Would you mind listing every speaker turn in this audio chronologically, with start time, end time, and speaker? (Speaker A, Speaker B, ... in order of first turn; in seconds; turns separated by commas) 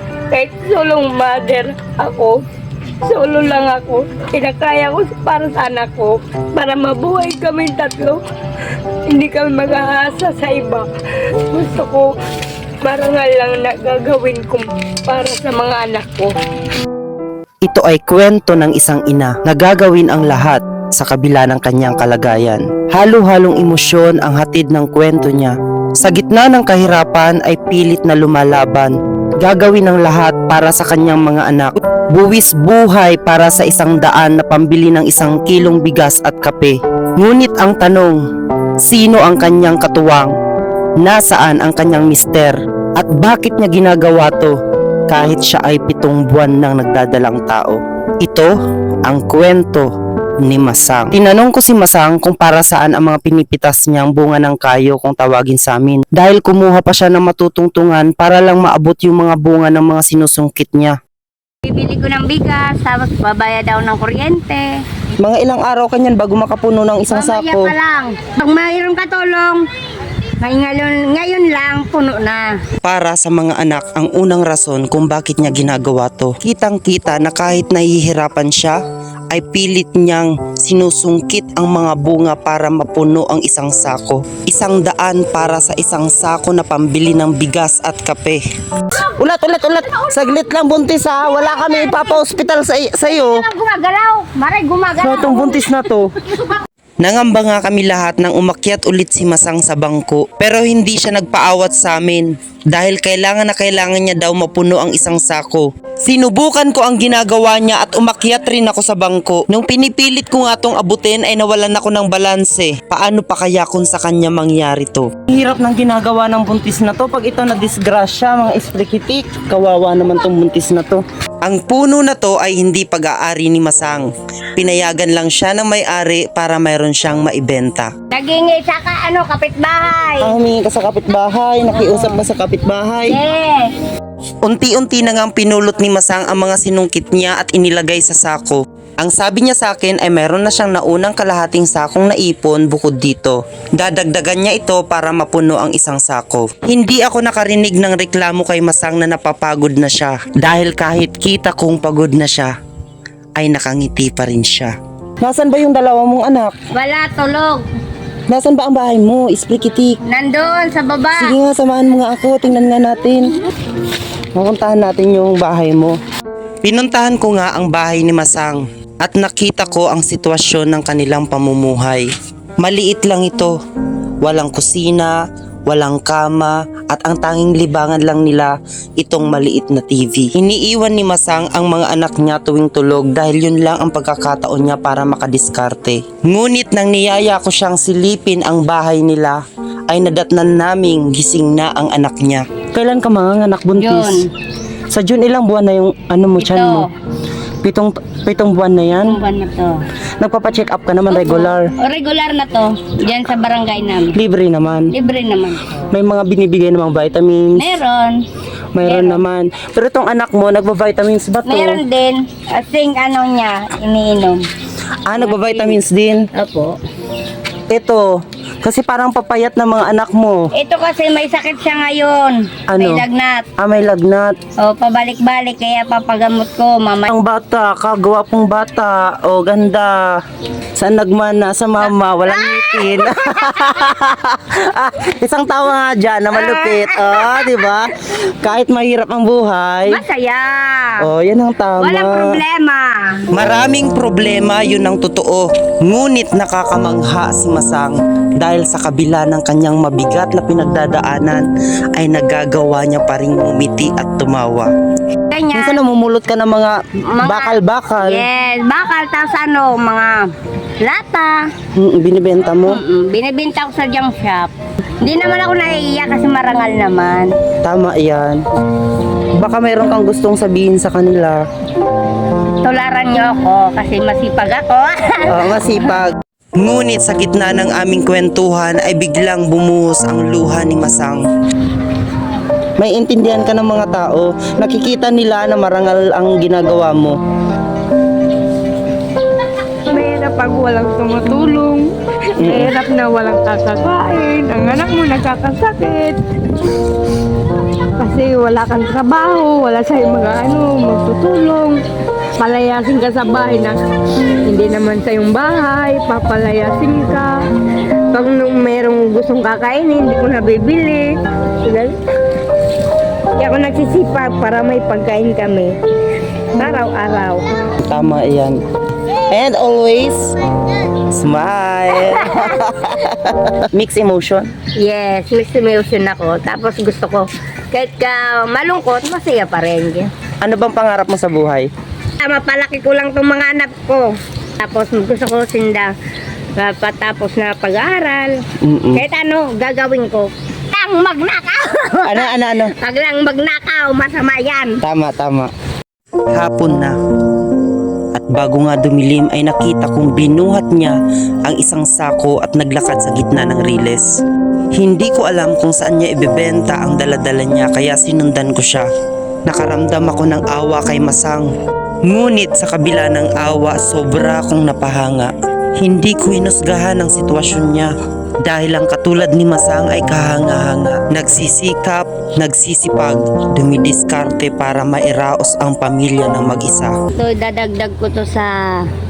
Speaker A: 0.3-2.4, Speaker A: 3.0-8.2, Speaker A: 9.1-10.9, Speaker A: 11.5-12.1, Speaker A: 12.8-16.3, Speaker B: 17.6-38.2, Speaker B: 38.8-40.3, Speaker B: 41.0-44.5, Speaker B: 45.1-48.5, Speaker B: 49.0-49.9, Speaker B: 50.4-61.0, Speaker C: 61.6-64.7, Speaker B: 65.2-67.7, Speaker C: 67.1-69.6, Speaker C: 70.4-72.5, Speaker B: 72.8-93.5, Speaker C: 91.6-92.0, Speaker C: 93.1-95.7, Speaker B: 95.0-96.1, Speaker B: 97.0-127.9, Speaker C: 128.1-130.4, Speaker B: 130.2-133.2, Speaker C: 131.8-132.2, Speaker C: 133.1-133.7, Speaker B: 134.4-152.5, Speaker B: 153.4-156.5, Speaker C: 156.8-157.6, Speaker B: 158.3-160.0, Speaker C: 160.1-161.3, Speaker B: 161.1-163.3, Speaker B: 164.3-165.9, Speaker B: 166.6-172.1, Speaker B: 172.6-173.6, Speaker B: 174.2-175.2, Speaker B: 175.7-194.2, Speaker C: 193.8-194.3, Speaker B: 194.9-196.9, Speaker C: 196.4-196.9, Speaker B: 197.6-199.2, Speaker C: 199.0-199.8, Speaker B: 200.2-201.7, Speaker C: 201.1-204.2, Speaker B: 204.1-204.9, Speaker C: 204.9-205.8, Speaker B: 205.9-207.7, Speaker C: 207.6-208.2, Speaker B: 208.7-211.8, Speaker C: 208.8-209.2, Speaker C: 211.4-214.4, Speaker B: 215.1-216.2, Speaker C: 215.2-215.8, Speaker C: 216.4-216.7, Speaker B: 217.7-218.1, Speaker B: 218.6-220.5, Speaker C: 220.6-223.4, Speaker B: 222.7-223.1, Speaker B: 223.6-224.3, Speaker C: 224.6-227.1, Speaker B: 227.1-230.1, Speaker B: 230.8-240.0, Speaker C: 231.9-233.8, Speaker C: 236.4-237.7, Speaker C: 239.9-241.0, Speaker B: 241.0-242.4, Speaker C: 241.8-243.1, Speaker B: 243.3-254.7, Speaker C: 255.3-255.8, Speaker B: 255.5-258.3, Speaker C: 257.1-260.2, Speaker C: 260.8-261.4, Speaker B: 261.7-262.8, Speaker C: 262.6-264.5, Speaker C: 265.0-267.3, Speaker B: 267.6-268.4, Speaker B: 269.4-271.4, Speaker C: 272.6-275.9, Speaker B: 275.2-281.2, Speaker B: 282.8-287.1, Speaker A: 289.9-296.2, Speaker B: 292.4-292.7, Speaker A: 298.0-301.8, Speaker A: 302.4-303.8, Speaker A: 304.4-307.3, Speaker A: 308.1-312.0, Speaker A: 313.4-315.8, Speaker A: 316.5-317.4, Speaker B: 317.8-318.6, Speaker B: 319.3-320.3, Speaker B: 321.1-324.5, Speaker C: 322.0-322.6, Speaker C: 324.8-330.1, Speaker B: 330.4-331.7, Speaker C: 332.2-334.0, Speaker A: 332.8-334.0, Speaker C: 334.6-335.9, Speaker C: 336.6-338.3, Speaker B: 338.6-339.0, Speaker C: 338.9-342.3, Speaker A: 340.8-341.3, Speaker B: 342.0-342.7, Speaker C: 342.9-344.7, Speaker A: 343.0-344.6, Speaker B: 344.8-345.5, Speaker B: 346.3-346.9, Speaker B: 348.1-354.1, Speaker B: 354.7-358.9, Speaker B: 359.5-361.5, Speaker B: 362.1-367.9, Speaker B: 368.4-376.9, Speaker C: 377.1-378.9